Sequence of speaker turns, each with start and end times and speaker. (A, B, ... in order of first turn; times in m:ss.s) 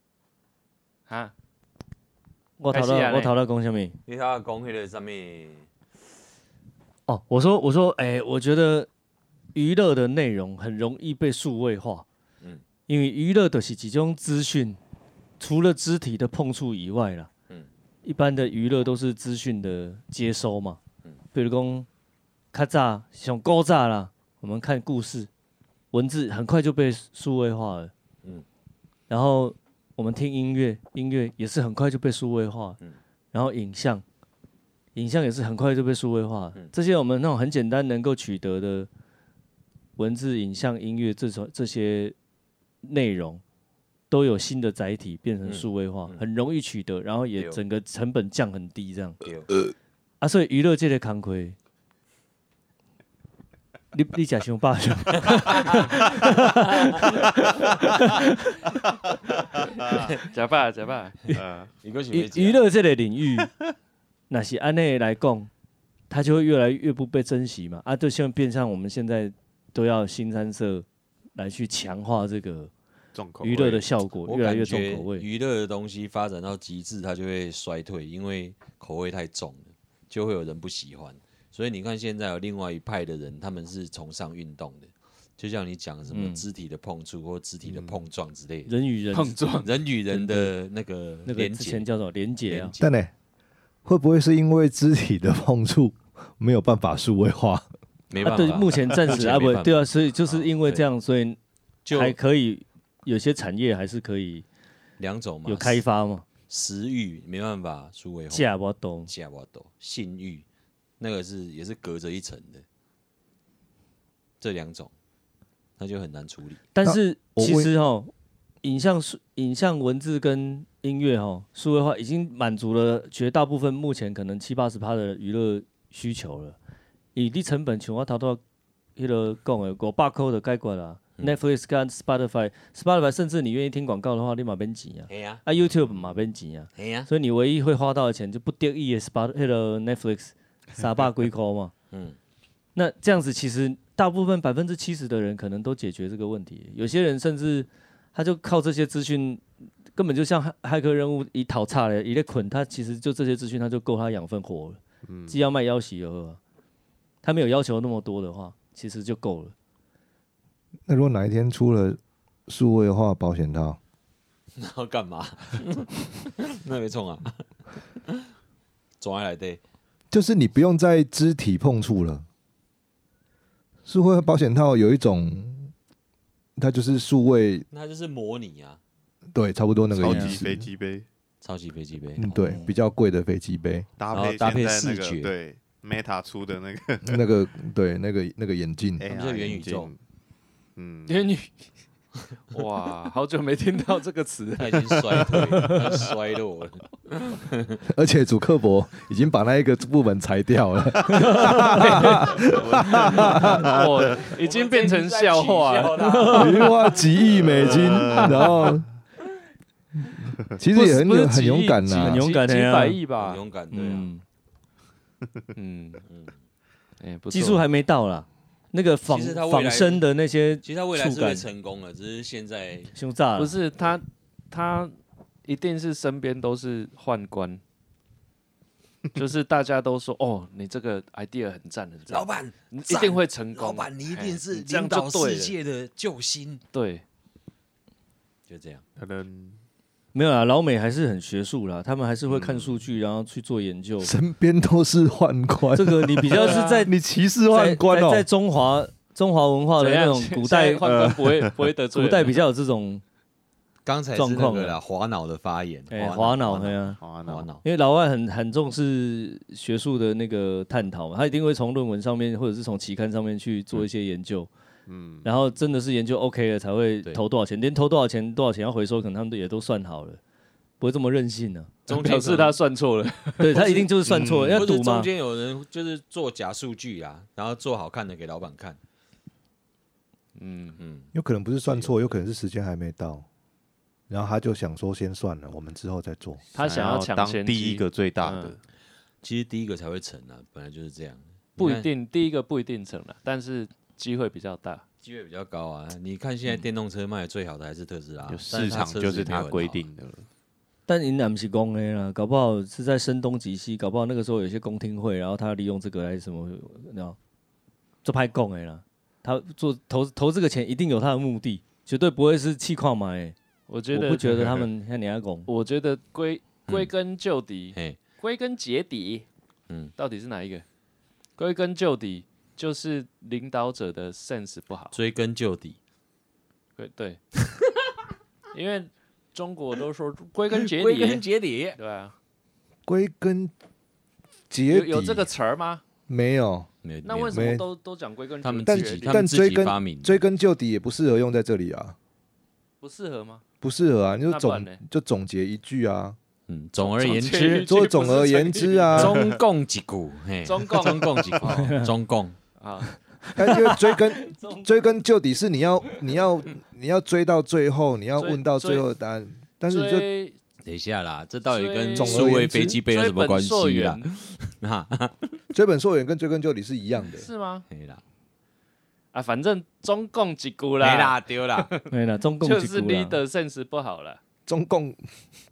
0:02.6-0:04.0 A
0:02.7-0:03.3 B
0:04.0-0:05.6 C
0:07.1-0:08.9 A
0:09.5-0:12.0 A
0:12.9-0:14.8 A
0:15.4-0:17.3 A
0:18.0-0:20.8 A
0:21.3-0:21.9 A
0:22.5-0:25.3 A
0:25.9-0:27.9 A
0:29.1-0:32.8 A
0:33.3-0:34.0 A
0:34.9-0:38.9 A
0:40.0-0:42.2 A
0:42.8-0:43.4 A
0:44.1-0:49.2 A
0:45.4-0:46.2 C
0:47.4-0:47.6 C
0:49.2-0:49.5 C
0:50.2-0:51.6 A
0:53.9-0:58.8 A
0:55.3-0:55.8 C
1:00.3-1:01.2 B
1:01.3-1:01.7 D
1:01.8-1:02.6 C
1:02.1-1:03.5 A
1:04.3-1:05.5 A
1:06.1-1:12.7 A
1:13.1-1:13.9 D
1:13.4-1:15.2 A
1:14.2-1:28.7 C
1:26.1-1:26.4 A
1:27.6-1:28.0 D
1:28.7-1:29.4 A
1:29.1-1:29.7 B
1:29.6-1:31.9 C
1:30.1-1:30.5 A
1:31.2-1:32.7 A
1:32.5-1:32.9 C
1:32.8-1:33.1 E
1:33.8-1:37.6 E
1:38.1-1:40.8 C
1:38.2-1:41.4 A
1:41.8-1:42.2 C
1:41.9-1:44.4 A
1:45.0-1:45.8 C
1:45.4-1:46.2 A
1:46.5-1:48.5 C
1:48.3-1:49.1 A
1:49.1-1:50.4 C
1:51.0-1:52.6 C
1:54.4-1:54.9 C
1:55.8-1:56.6 C
1:56.7-1:58.1 A
1:56.8-1:57.7 E
1:58.6-2:06.6 A
2:07.1-2:08.4 A
2:09.0-2:21.7 A
2:15.1-2:16.1 C
2:16.8-2:17.1 C
2:21.9-2:22.2 C
2:22.7-2:29.4 A
2:29.9-2:36.4 A
2:35.0-2:35.4 D
2:37.2-2:39.5 A
2:40.9-2:43.8 E
2:44.6-2:47.4 C
2:49.0-2:49.6 C
2:50.1-2:52.2 E
2:53.8-2:55.7 E
2:56.6-2:57.6 E
2:57.7-2:58.8 C
2:59.3-3:00.6 E
2:59.9-3:01.0 D
3:00.0-3:00.4 A
3:01.4-3:02.2 C
3:02.2-3:03.9 E
3:02.3-3:02.8 A
3:04.0-3:07.2 D
3:04.1-3:05.3 C
3:07.0-3:09.0 E
3:09.0-3:10.0 D
3:09.0-3:09.9 C
3:10.8-3:11.2 D
3:11.1-3:11.5 B
3:12.5-3:15.8 B
3:14.6-3:17.8 C
3:17.8-3:23.7 E
3:21.1-3:26.6 B
3:22.6-3:24.2 D
3:24.2-3:26.7 C
3:26.1-3:26.4 A
3:26.4-3:28.8 E
3:27.2-3:28.8 D
3:30.6-3:32.2 E
3:30.7-3:33.4 B
3:31.9-3:32.2 C
3:32.0-3:33.0 A
3:33.2-3:34.1 C
3:33.7-3:34.2 A
3:35.6-3:36.0 B
3:36.0-3:36.3 C
3:37.0-3:37.6 B
3:37.3-3:41.4 A
3:39.1-3:40.0 C
3:40.6-3:42.9 C
3:42.9-3:43.5 A
3:43.4-3:44.9 B
3:45.4-3:47.6 B
3:49.1-3:55.5 B
3:52.1-3:56.6 C
3:56.7-3:57.0 B
3:58.5-3:58.8 C
3:59.0-3:59.6 D
4:00.1-4:04.1 A
4:02.3-4:02.8 D
4:04.0-4:08.3 E
4:05.7-4:06.9 A
4:06.3-4:06.9 B
4:07.5-4:10.8 A
4:09.8-4:12.4 B
4:10.8-4:11.5 D
4:11.9-4:13.0 A
4:13.8-4:17.6 C
4:14.1-4:14.8 A
4:15.9-4:17.0 A
4:17.0-4:17.5 D
4:17.6-4:24.5 A
4:24.9-4:25.4 D
4:25.2-4:30.2 A
4:30.8-4:31.7 A
4:31.8-4:32.6 C
4:31.9-4:33.9 B
4:33.4-4:35.1 A
4:34.0-4:34.7 D
4:34.5-4:38.8 C
4:40.3-4:40.8 B
4:40.8-4:41.1 C
4:41.1-4:43.2 E
4:41.6-4:41.9 C
4:44.1-4:46.4 E
4:46.5-4:48.6 B
4:46.6-4:48.6 D
4:49.2-4:51.9 C
4:51.6-4:54.8 B
4:55.0-4:59.8 C
4:58.3-5:00.3 D
5:00.9-5:07.2 A
5:08.0-5:13.4 A
5:13.7-5:14.7 B
5:13.9-5:15.5 A
5:15.5-5:19.2 B
5:20.0-5:20.6 B
5:21.4-5:24.9 B
5:24.9-5:25.8 C
5:26.8-5:27.2 B
5:28.5-5:31.2 B
5:30.5-5:31.8 C
5:31.8-5:32.1 B
5:32.8-5:33.5 E
5:34.5-5:35.3 E
5:34.7-5:35.8 B
5:36.1-5:36.7 E
5:36.8-5:37.5 C
5:37.0-5:39.2 B
5:37.3-5:37.6 E
5:38.4-5:40.2 C
5:38.6-5:42.0 E
5:42.8-5:43.4 B
5:43.6-5:46.2 E
5:44.3-5:44.8 B
5:46.5-5:47.7 C
5:46.8-5:49.4 B
5:47.5-5:49.2 E
5:48.9-5:52.4 C
5:50.4-5:51.4 B
5:51.5-5:51.9 A
5:52.6-5:52.9 B
5:53.4-5:53.9 A
5:53.4-6:00.1 E
5:58.2-5:58.8 B
5:59.6-6:00.4 B
6:00.6-6:05.3 C
6:01.5-6:04.1 B
6:02.0-6:02.8 E
6:05.5-6:07.3 E
6:07.2-6:07.6 B
6:07.7-6:08.0 C
6:09.1-6:11.8 B
6:10.8-6:11.7 C
6:11.9-6:13.2 A
6:12.4-6:14.2 B
6:14.5-6:15.0 E